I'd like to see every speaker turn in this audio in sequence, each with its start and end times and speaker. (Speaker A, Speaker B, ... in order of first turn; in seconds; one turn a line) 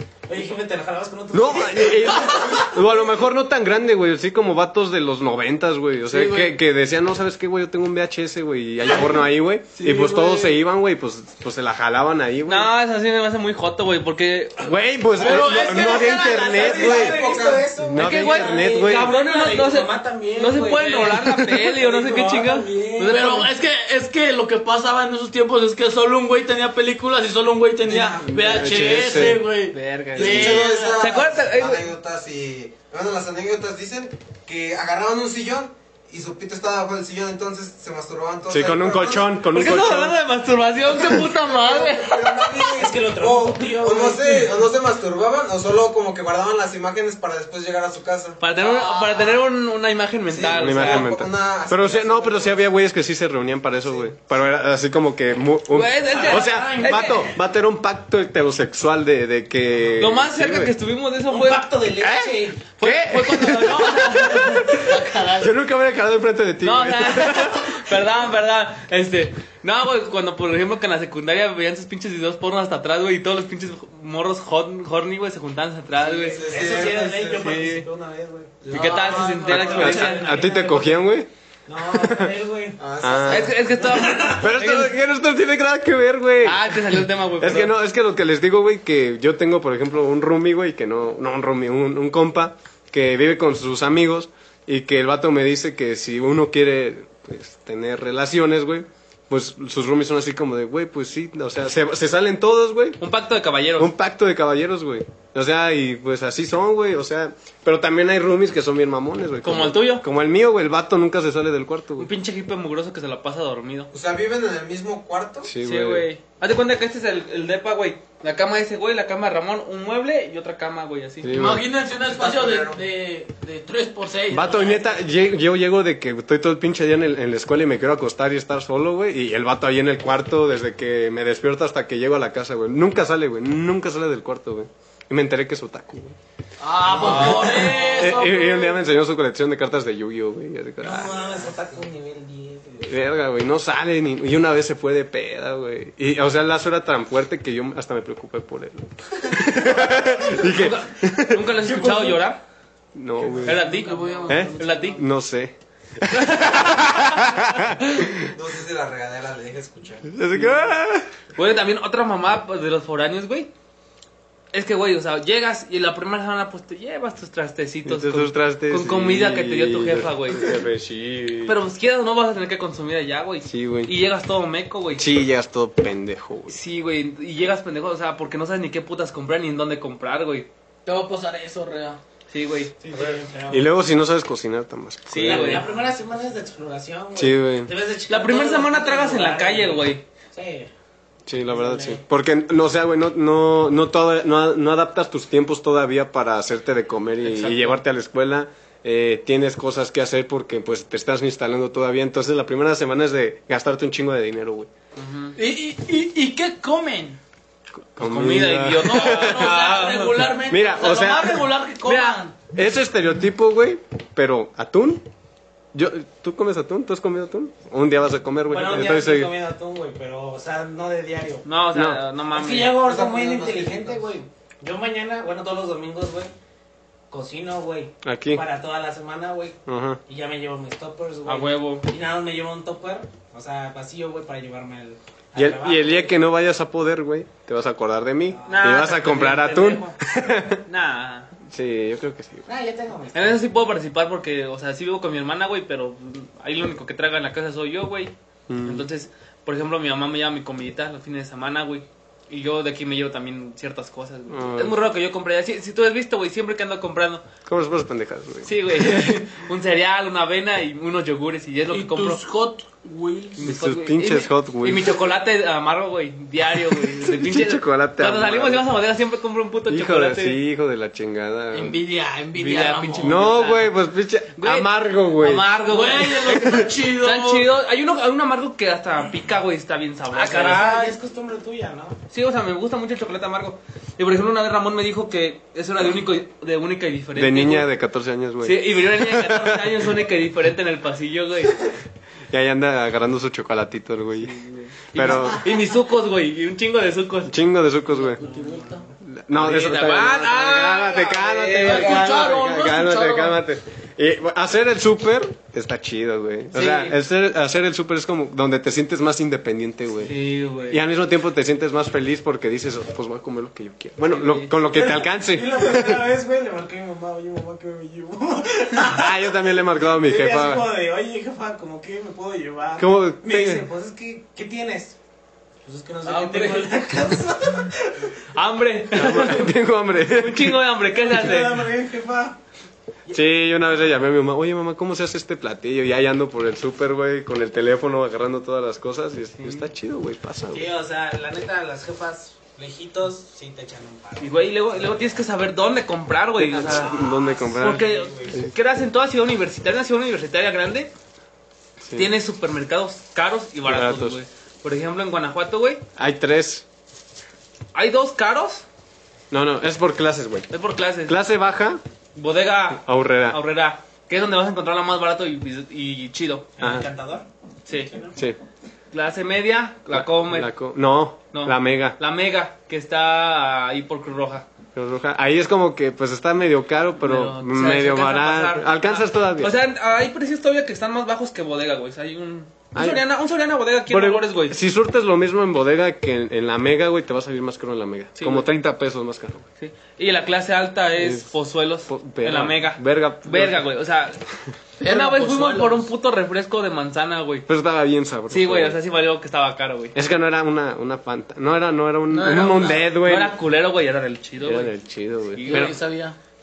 Speaker A: 0.3-3.0
Speaker B: 1.3-12.7
Speaker C: 6.1-6.5
Speaker C: 9.7-10.6
Speaker D: 12.4-14.8
Speaker B: 14.6-17.2
Speaker C: 15.2-17.5
Speaker A: 15.2-23.2
Speaker E: 16.6-17.7
Speaker B: 17.8-19.1
Speaker D: 17.9-23.5
Speaker C: 23.0-31.2
Speaker E: 27.8-29.4
Speaker B: 28.2-29.4
Speaker D: 29.7-31.9
Speaker E: 30.1-39.3
Speaker B: 38.5-40.2
Speaker D: 39.5-42.7
Speaker E: 41.0-49.3
Speaker A: 42.6-44.5
Speaker D: 48.4-51.1
Speaker E: 50.3-52.7
Speaker B: 50.5-60.7
Speaker D: 55.7-57.2
Speaker A: 56.1-57.3
Speaker D: 60.0-61.7
Speaker A: 61.3-62.6
Speaker B: 62.0-67.8
Speaker D: 62.8-64.9
Speaker C: 63.3-65.5
Speaker D: 66.6-76.6
Speaker A: 76.0-81.1
Speaker E: 76.3-77.5
Speaker D: 77.3-77.8
Speaker D: 78.7-80.4
Speaker E: 78.7-79.1
Speaker C: 78.7-79.6
Speaker B: 79.5-81.3
Speaker A: 81.7-82.8
Speaker B: 81.9-82.3
Speaker E: 82.8-84.2
Speaker B: 83.0-83.5
Speaker D: 83.2-84.9
Speaker A: 83.8-84.4
Speaker B: 84.4-103.0
Speaker D: 86.4-87.7
Speaker D: 103.0-103.9
Speaker B: 103.8-112.1
Speaker D: 109.4-110.0
Speaker D: 112.0-113.9
Speaker E: 113.9-115.5
Speaker B: 115.4-116.1
Speaker D: 115.6-121.3
Speaker B: 121.2-121.7
Speaker C: 121.3-125.0
Speaker E: 122.0-122.8
Speaker B: 124.3-136.2
Speaker C: 136.6-138.8
Speaker A: 136.9-138.0
Speaker B: 136.9-141.3
Speaker A: 140.8-143.0
Speaker B: 142.8-151.9
Speaker D: 150.2-152.4
Speaker B: 152.9-153.6
Speaker C: 153.3-155.0
Speaker D: 153.4-155.0
Speaker B: 154.3-158.3
Speaker D: 156.1-157.7
Speaker E: 158.2-160.1
Speaker B: 160.1-161.1
Speaker D: 161.3-163.5
Speaker D: 164.5-170.6
Speaker B: 167.8-171.6
Speaker D: 171.4-175.2
Speaker B: 173.4-173.9
Speaker B: 174.9-176.6
Speaker D: 176.5-180.5
Speaker C: 180.8-182.0
Speaker D: 182.3-182.7
Speaker A: 182.8-183.7
Speaker B: 183.5-185.7
Speaker D: 185.1-185.7
Speaker A: 185.2-190.7
Speaker B: 187.2-187.7
Speaker D: 188.1-190.0
Speaker B: 191.2-204.7
Speaker A: 191.4-192.0
Speaker D: 197.2-197.7
Speaker D: 204.9-205.3
Speaker C: 205.3-207.2
Speaker B: 207.9-209.7
Speaker D: 208.0-210.3
Speaker C: 208.8-212.3
Speaker B: 210.4-211.5
Speaker D: 211.8-212.2
Speaker B: 212.5-215.0
Speaker B: 215.7-219.3
Speaker A: 218.5-221.5
Speaker D: 221.4-222.8
Speaker B: 221.7-222.0
Speaker A: 222.3-226.3
Speaker E: 222.8-224.0
Speaker A: 227.1-236.2
Speaker B: 228.0-228.4
Speaker B: 229.7-230.0
Speaker D: 231.2-231.9
Speaker B: 235.3-240.6
Speaker A: 238.3-238.8
Speaker D: 238.4-240.0
Speaker D: 240.6-241.3
Speaker B: 241.4-242.4
Speaker A: 242.5-243.5
Speaker D: 243.1-257.2
Speaker B: 248.5-248.8
Speaker B: 254.3-254.8
Speaker B: 257.4-259.1
Speaker D: 258.4-262.2
Speaker C: 261.7-263.5
Speaker D: 263.4-270.4
Speaker B: 263.4-264.9
Speaker B: 267.0-268.7
Speaker B: 269.7-271.8
Speaker C: 271.5-273.2
Speaker D: 272.3-273.8
Speaker B: 273.0-275.5
Speaker D: 274.4-280.9
Speaker C: 275.7-277.5
Speaker B: 276.2-276.7
Speaker A: 280.1-282.0
Speaker D: 282.1-287.7
Speaker B: 287.1-289.9
Speaker D: 288.4-291.7
Speaker B: 292.3-294.3
Speaker D: 294.2-297.3
Speaker B: 294.9-295.4
Speaker B: 297.3-298.2
Speaker C: 297.9-298.9
Speaker A: 298.2-298.9
Speaker B: 299.0-310.1
Speaker D: 299.3-302.1
Speaker C: 301.6-303.4
Speaker D: 306.5-307.0
Speaker D: 310.0-310.8
Speaker B: 310.7-316.0
Speaker D: 314.1-314.5
Speaker A: 314.7-325.0
Speaker B: 318.8-320.7
Speaker B: 322.8-323.6
Speaker A: 325.6-328.1
Speaker C: 326.0-326.8
Speaker D: 328.3-331.7
Speaker B: 328.9-330.6
Speaker A: 330.9-332.4
Speaker B: 333.1-340.7
Speaker D: 339.4-339.7
Speaker A: 340.5-345.2
Speaker D: 344.2-350.9
Speaker B: 346.4-348.5
Speaker A: 346.6-348.5
Speaker B: 351.8-352.1
Speaker D: 351.9-355.8
Speaker B: 353.6-354.2
Speaker B: 356.0-356.6
Speaker D: 357.7-358.6
Speaker B: 359.3-360.5
Speaker D: 360.5-361.2
Speaker B: 361.0-361.8
Speaker D: 362.1-366.5
Speaker B: 362.8-363.4
Speaker A: 366.6-368.1
Speaker B: 366.6-366.9
Speaker D: 367.7-367.9
Speaker D: 368.9-370.5
Speaker B: 369.9-372.0
Speaker D: 371.3-374.5
Speaker B: 374.7-379.5
Speaker D: 377.0-384.6
Speaker B: 382.7-383.0
Speaker B: 383.9-389.4
Speaker D: 388.2-388.5
Speaker D: 389.6-394.2
Speaker B: 391.0-391.3
Speaker B: 391.9-393.7
Speaker C: 394.8-395.9
Speaker D: 394.8-397.5
Speaker B: 397.5-398.8
Speaker D: 398.3-399.9
Speaker B: 399.9-403.4
Speaker C: 402.1-402.9
Speaker D: 403.0-404.7
Speaker B: 404.4-405.8
Speaker D: 405.3-405.8
Speaker C: 405.4-406.2